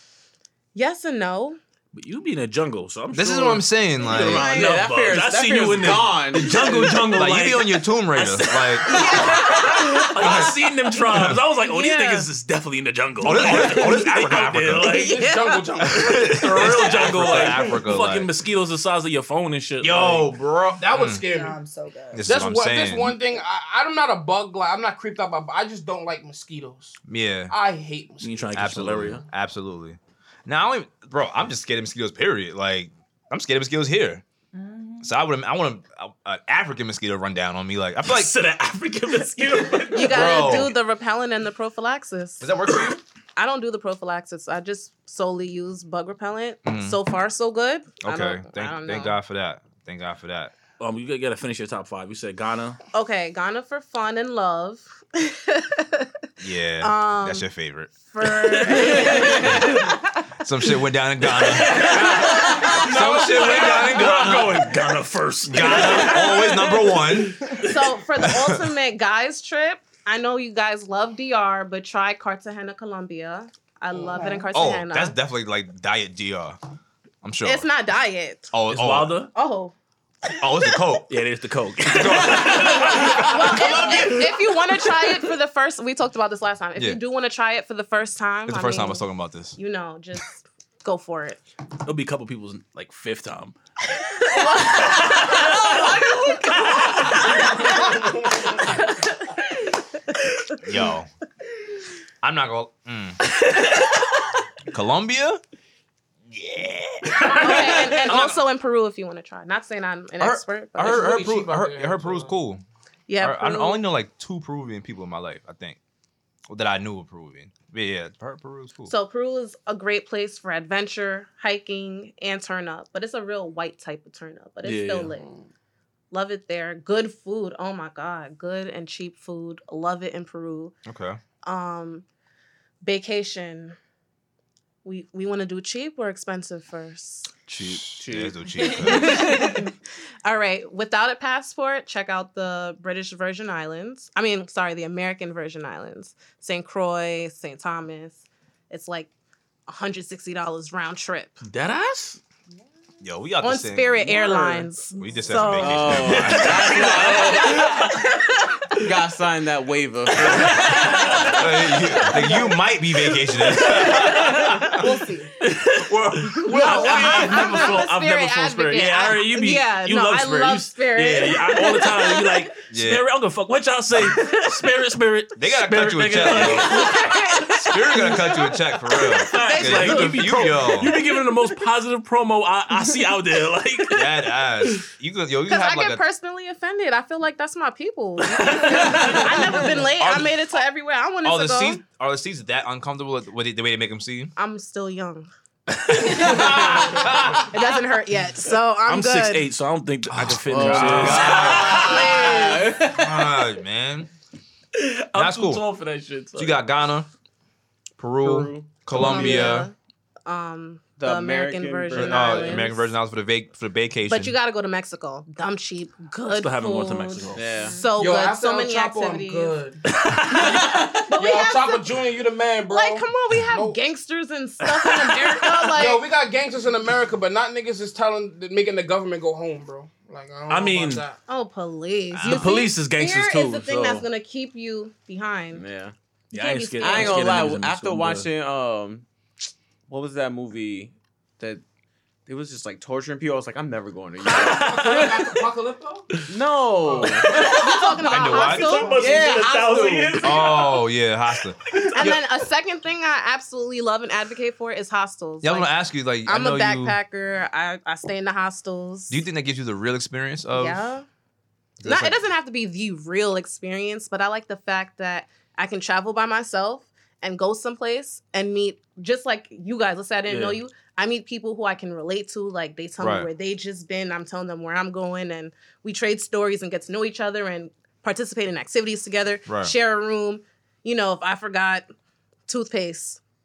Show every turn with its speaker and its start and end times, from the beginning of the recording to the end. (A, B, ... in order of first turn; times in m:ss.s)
0:00.7-0:01.6 A
0:01.9-0:15.2 B
0:03.1-0:04.5 C
0:04.1-0:07.0 D
0:04.3-0:04.9 A
0:07.0-0:09.2 C
0:08.8-0:10.5 A
0:10.2-0:10.5 C
0:11.6-0:12.3 A
0:13.2-0:15.0 C
0:14.8-0:15.7 A
0:14.9-0:17.6 E
0:15.9-0:18.3 C
0:16.2-0:20.3 B
0:19.8-0:21.2 C
0:20.7-0:21.6 E
0:21.2-0:22.3 F
0:22.1-0:23.2 C
0:22.2-0:27.0 E
0:27.0-0:27.5 C
0:27.5-0:28.6 E
0:28.2-0:29.2 B
0:28.5-0:34.2 C
0:34.5-0:35.1 F
0:35.0-0:38.3 C
0:38.0-0:40.7 B
0:39.9-0:42.5 A
0:40.0-0:40.7 C
0:42.4-0:43.0 C
0:43.4-0:49.2 A
0:46.6-0:47.0 C
0:48.0-0:50.5 C
0:50.8-0:52.8 B
0:52.9-0:56.1 A
0:56.4-0:57.9 C
0:56.8-1:00.2 A
0:58.2-0:59.9 B
0:59.3-0:59.8 C
1:00.4-1:04.8 C
1:01.2-1:07.9 B
1:01.8-1:02.9 A
1:01.9-1:04.4 E
1:05.4-1:07.5 C
1:07.5-1:15.2 A
1:08.2-1:08.7 C
1:14.1-1:14.5 F
1:14.5-1:16.6 C
1:17.2-1:17.6 C
1:17.4-1:18.5 A
1:18.5-1:19.2 C
1:18.7-1:19.3 B
1:19.3-1:19.7 A
1:20.4-1:21.1 C
1:21.1-1:24.4 B
1:21.9-1:24.1 C
1:22.5-1:29.0 A
1:28.5-1:29.6 C
1:29.6-1:31.4 A
1:31.8-1:33.5 B
1:34.2-1:39.8 A
1:34.3-1:37.7 B
1:40.6-1:41.1 C
1:42.2-1:43.2 C
1:43.4-1:43.9 B
1:44.7-1:45.4 C
1:46.3-1:48.4 C
1:47.1-1:48.0 B
1:47.3-1:51.2 A
1:50.2-1:52.6 C
1:50.8-1:52.4 E
1:53.1-1:53.8 A
1:53.2-1:55.8 C
1:56.5-1:58.9 C
1:58.8-2:05.3 A
2:04.6-2:05.1 B
2:05.2-2:05.5 E
2:06.1-2:10.7 A
2:10.8-2:11.2 C
2:11.4-2:12.0 A
2:12.8-2:13.8 A
2:14.8-2:17.3 A
2:17.5-2:18.0 B
2:17.6-2:19.3 C
2:18.0-2:19.4 D
2:18.6-2:19.7 A
2:20.2-2:29.1 A
2:29.7-2:31.4 A
2:31.4-2:32.2 B
2:33.0-2:33.9 C
2:33.4-2:36.3 A
2:34.0-2:34.6 D
2:34.9-2:36.7 C
2:35.5-2:37.8 D
2:35.8-2:38.1 B
2:38.8-2:41.3 D
2:40.2-2:42.2 B
2:40.7-2:41.4 A
2:41.3-2:44.8 C
2:42.1-2:42.5 A
2:43.5-2:44.6 B
2:43.8-2:44.9 A
2:44.8-2:45.3 E
2:45.4-3:04.8 B
2:46.4-2:52.5 A
2:52.7-2:53.0 C
2:54.1-2:54.6 A
2:55.4-2:57.0 C
2:56.3-2:58.6 A
2:57.6-3:00.9 C
2:59.1-3:01.2 A
3:03.9-3:06.0 C
3:05.4-3:11.8 A
3:08.2-3:09.7 B
3:09.0-3:10.4 C
3:11.2-3:14.3 C
3:14.4-3:15.3 A
3:15.8-3:17.0 B
3:15.9-3:19.5 A
3:16.0-3:17.5 C
3:18.8-3:22.4 B
3:20.1-3:21.9 C
3:20.5-3:23.3 D
3:21.2-3:22.8 A
3:22.9-3:24.1 C
3:24.7-3:26.6 B
3:25.1-3:25.6 C
3:26.4-3:27.1 C
3:28.0-3:29.7 C
3:28.2-3:29.6 D
3:28.9-3:29.7 A
3:30.2-3:32.9 A
3:31.0-3:32.7 D
3:31.9-3:34.3 C
3:34.1-3:39.6 A
3:36.3-3:37.5 B
3:37.3-3:37.8 D
3:37.9-3:43.8 E
3:39.9-3:40.9 B
3:40.3-3:41.9 A
3:42.7-3:46.0 A
3:44.8-3:45.5 B
3:45.7-3:51.2 E
3:50.5-3:51.0 B
3:51.3-3:55.6 A
3:52.1-3:52.5 C
3:52.2-3:54.0 B
3:55.5-3:55.9 D
3:56.3-3:58.3 B
3:56.3-3:57.5 A
3:56.8-3:59.0 D
3:59.9-4:01.6 D
4:02.2-4:05.1 D
4:04.2-4:06.2 E
4:04.3-4:05.2 B
4:06.3-4:07.6 D
4:06.8-4:07.6 E
4:07.0-4:10.7 B
4:07.4-4:09.2 A
4:08.1-4:08.9 C
4:08.4-4:09.3 E
4:08.9-4:10.6 D
4:10.2-4:12.2 C
4:11.7-4:11.9 B
4:11.9-4:15.7 A
4:15.4-4:17.0 C
4:16.2-4:19.2 A
4:19.1-4:20.9 C
4:20.5-4:21.0 A
4:21.8-4:22.2 C
4:21.8-4:41.9 A
4:30.3-4:30.6 B
4:33.0-4:33.3 C
4:39.5-4:39.7 C
4:42.5-4:43.2 A